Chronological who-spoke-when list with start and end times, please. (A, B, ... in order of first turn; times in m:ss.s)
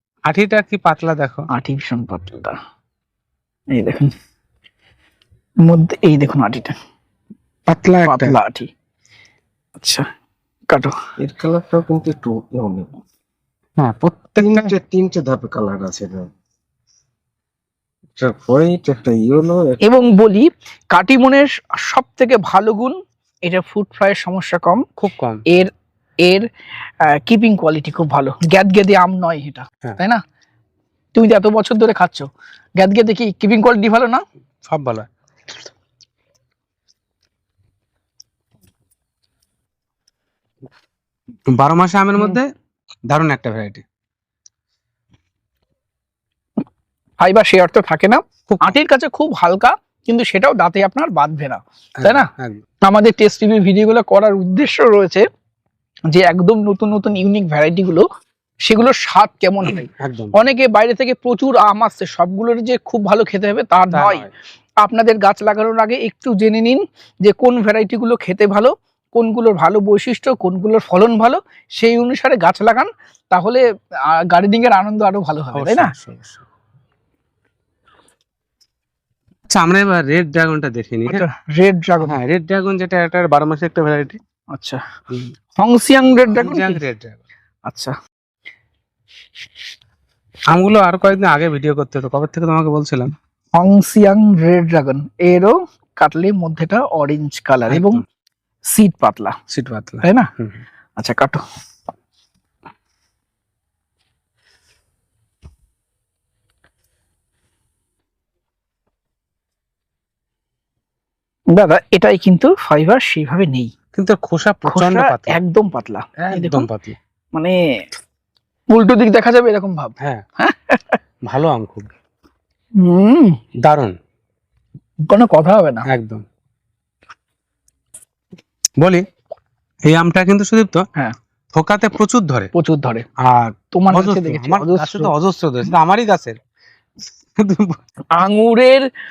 0:00.3-0:01.5 A
0:01.5-0:02.6 B
0:03.7-0:04.1 B
0:05.6-0:06.8 B
0:07.7-0:08.3 A
0:08.0-0:08.7 B
0:09.8-0:10.0 B
0:10.7-0:11.0 B
0:11.2-0:12.9 C
0:13.8-0:14.7 A
0:14.4-0:16.3 C
0:18.2-0:19.8 C
0:19.8-0:24.8 B
0:25.0-0:25.4 A
0:27.0-0:30.2 B
0:31.1-0:34.2 B
0:34.7-0:35.1 A
0:41.5-0:42.5 A
0:43.1-0:43.8 A
0:47.2-0:52.3 B
0:48.5-0:48.7 A
0:52.0-0:52.6 A
0:52.8-0:55.2 B
0:56.1-0:58.1 B
0:58.6-1:04.3 B
0:59.8-1:00.3 A
1:03.9-1:04.3 A
1:04.8-1:15.9 B
1:15.5-1:16.4 A
1:19.5-1:21.2 A
1:21.1-1:22.2 B
1:22.0-1:24.2 A
1:24.5-1:24.8 B
1:25.6-1:26.8 B
1:26.3-1:27.2 A
1:27.7-1:27.9 B
1:30.5-1:33.1 A
1:33.6-1:38.0 B
1:37.7-1:38.0 A
1:38.7-1:39.4 B
1:39.5-1:40.6 A
1:40.0-1:40.3 B
1:41.0-1:41.4 B
1:51.5-1:53.7 B
1:53.9-1:55.4 A
1:54.6-1:56.7 B
1:56.2-1:57.0 A
1:58.7-2:01.0 B
2:01.2-2:01.9 A
2:02.8-2:03.4 B
2:03.6-2:03.9 A
2:05.0-2:05.8 B
2:05.9-2:06.2 A
2:08.8-2:09.0 A
2:09.9-2:10.8 A
2:11.5-2:12.5 A
2:12.5-2:13.0 B
2:13.2-2:16.4 A
2:13.7-2:15.1 B
2:17.4-2:17.8 A
2:18.1-2:18.9 B